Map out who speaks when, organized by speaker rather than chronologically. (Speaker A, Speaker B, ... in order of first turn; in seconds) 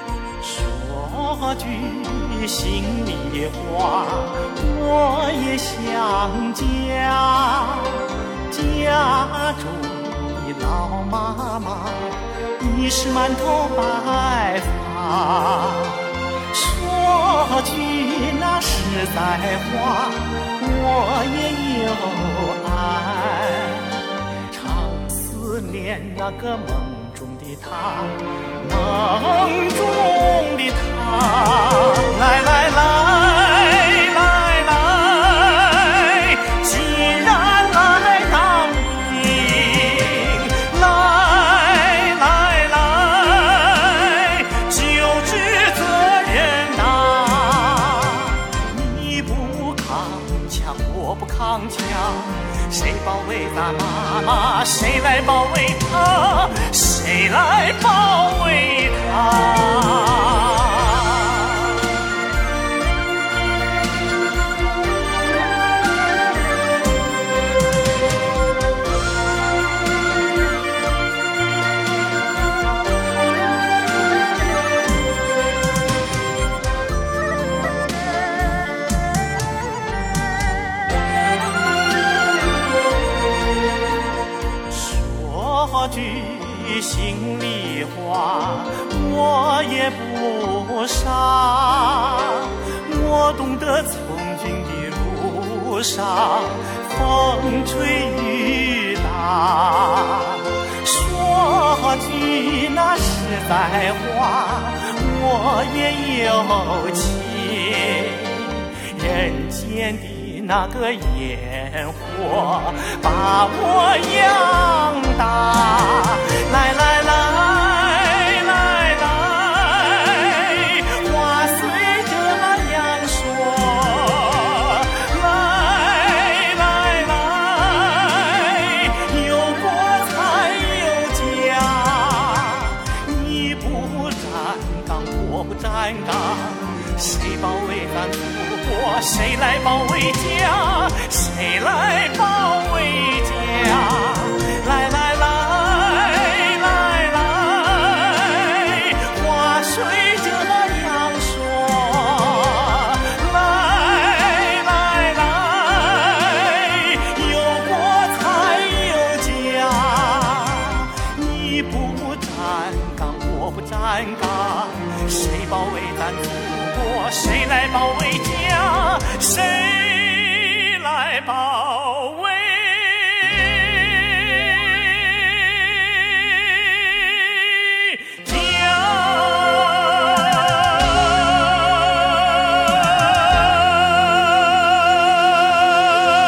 Speaker A: 0.4-62.0, 84.7-182.0